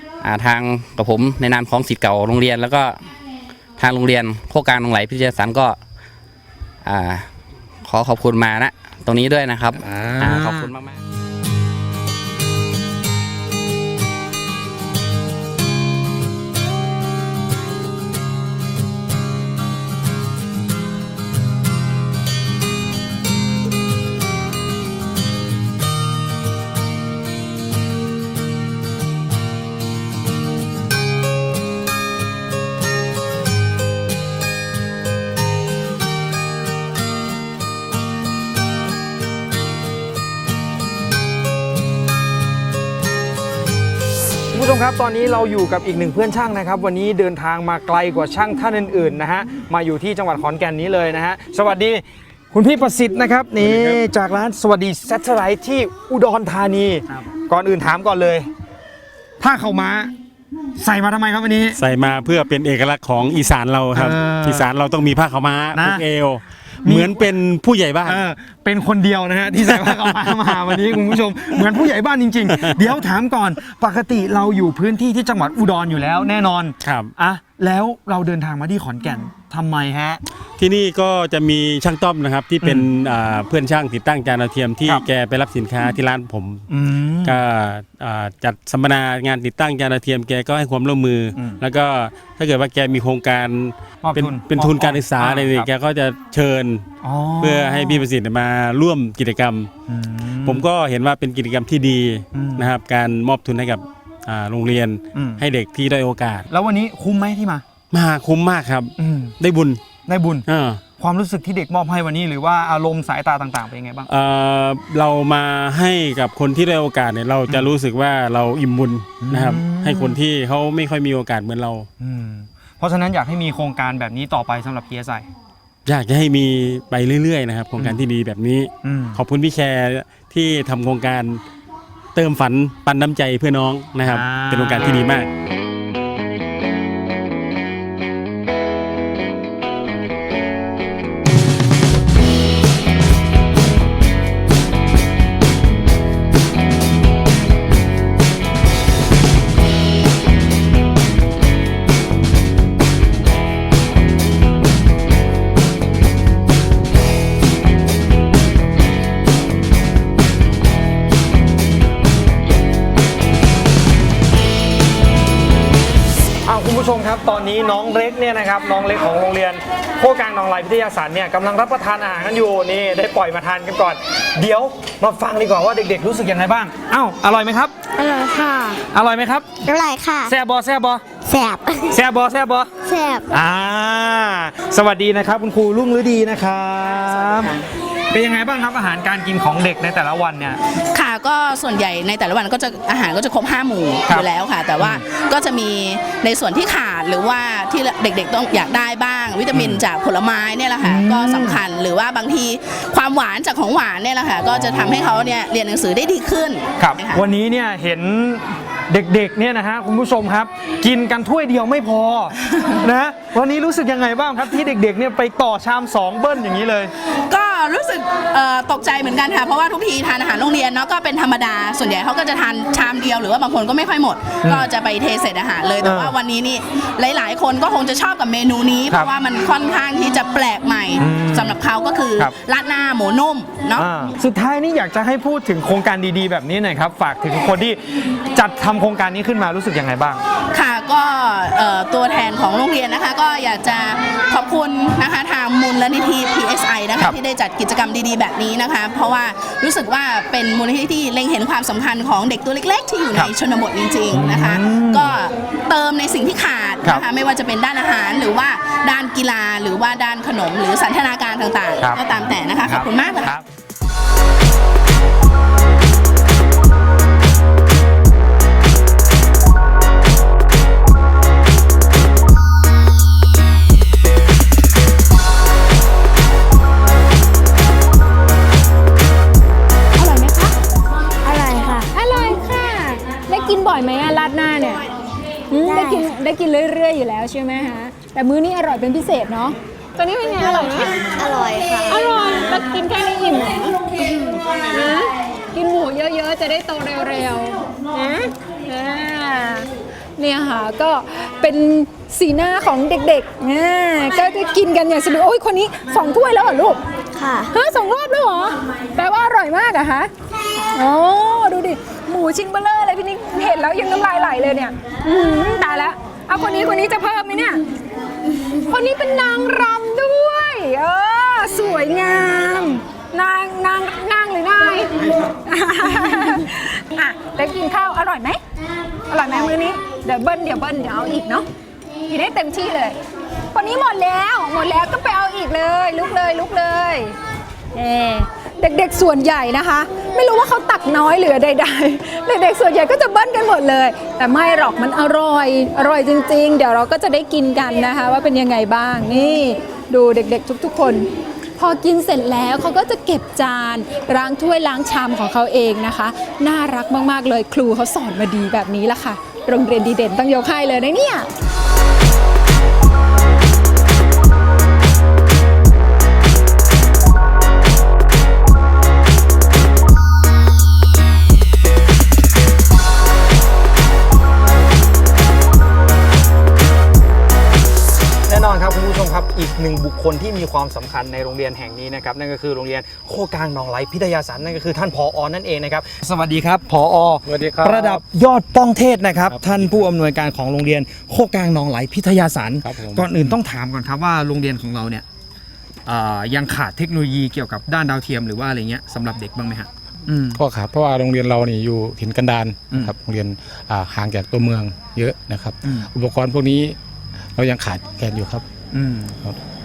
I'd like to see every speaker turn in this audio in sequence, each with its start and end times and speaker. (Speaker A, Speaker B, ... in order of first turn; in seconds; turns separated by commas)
Speaker A: 0.2-3.0, Speaker A: 3.8-5.8, Speaker A: 6.8-7.3, Speaker A: 7.8-11.0, Speaker B: 9.8-10.7, Speaker B: 44.5-58.5, Speaker B: 59.4-60.1, Speaker B: 60.8-61.8, Speaker C: 61.8-68.2, Speaker B: 63.9-64.7, Speaker B: 65.7-66.0, Speaker B: 66.8-67.2, Speaker B: 68.0-80.2, Speaker C: 69.6-71.0, Speaker C: 76.8-77.1, Speaker C: 80.6-86.7, Speaker B: 82.6-82.9, Speaker B: 86.7-87.4, Speaker C: 87.2-96.9, Speaker B: 91.3-91.6, Speaker B: 94.0-95.7, Speaker B: 97.0-98.0, Speaker C: 97.4-99.7, Speaker B: 99.9-100.7, Speaker C: 100.4-106.5, Speaker B: 102.3-102.7, Speaker B: 105.1-105.4, Speaker B: 106.5-107.6, Speaker C: 107.9-109.8, Speaker B: 109.0-109.3, Speaker B: 110.1-110.4, Speaker C: 110.5-110.8, Speaker B: 111.0-114.1, Speaker C: 114.1-121.9, Speaker B: 119.2-120.2, Speaker B: 122.0-125.2, Speaker C: 125.8-131.4, Speaker B: 128.8-129.2, Speaker C: 132.1-135.3, Speaker B: 134.0-135.1, Speaker B: 166.4-177.7, Speaker D: 178.0-178.8, Speaker B: 178.8-179.5, Speaker D: 179.6-180.3, Speaker B: 180.3-181.0, Speaker D: 181.2-182.0, Speaker B: 181.9-182.7, Speaker D: 182.8-183.3, Speaker B: 183.3-190.6, Speaker E: 190.9-207.2, Speaker B: 199.5-199.8, Speaker B: 200.8-201.6, Speaker B: 204.6-205.0, Speaker B: 206.8-216.9, Speaker E: 217.3-233.9, Speaker B: 224.4-224.7, Speaker B: 225.8-226.1, Speaker B: 231.0-231.6, Speaker B: 233.8-240.2, Speaker E: 240.5-263.4, Speaker B: 254.1-255.1, Speaker B: 261.8-263.4, Speaker F: 280.0-280.5, Speaker D: 281.2-281.9, Speaker F: 281.9-284.8, Speaker F: 285.5-291.0, Speaker D: 285.6-286.1, Speaker D: 290.5-292.0, Speaker F: 291.9-293.8, Speaker D: 294.0-294.4, Speaker F: 294.7-297.6, Speaker D: 297.9-298.3, Speaker F: 298.6-299.7, Speaker F: 300.2-306.8, Speaker D: 307.1-307.5, Speaker F: 307.5-310.1, Speaker F: 310.7-317.6, Speaker F: 318.6-328.4, Speaker F: 329.1-331.4, Speaker F: 332.1-332.9, Speaker F: 333.5-337.1, Speaker F: 337.7-361.3, Speaker B: 378.3-395.0, Speaker G: 387.2-388.0, Speaker G: 389.3-389.8, Speaker G: 392.6-393.4, Speaker B: 395.9-400.4, Speaker G: 400.3-406.8, Speaker G: 407.4-408.5, Speaker B: 408.7-409.2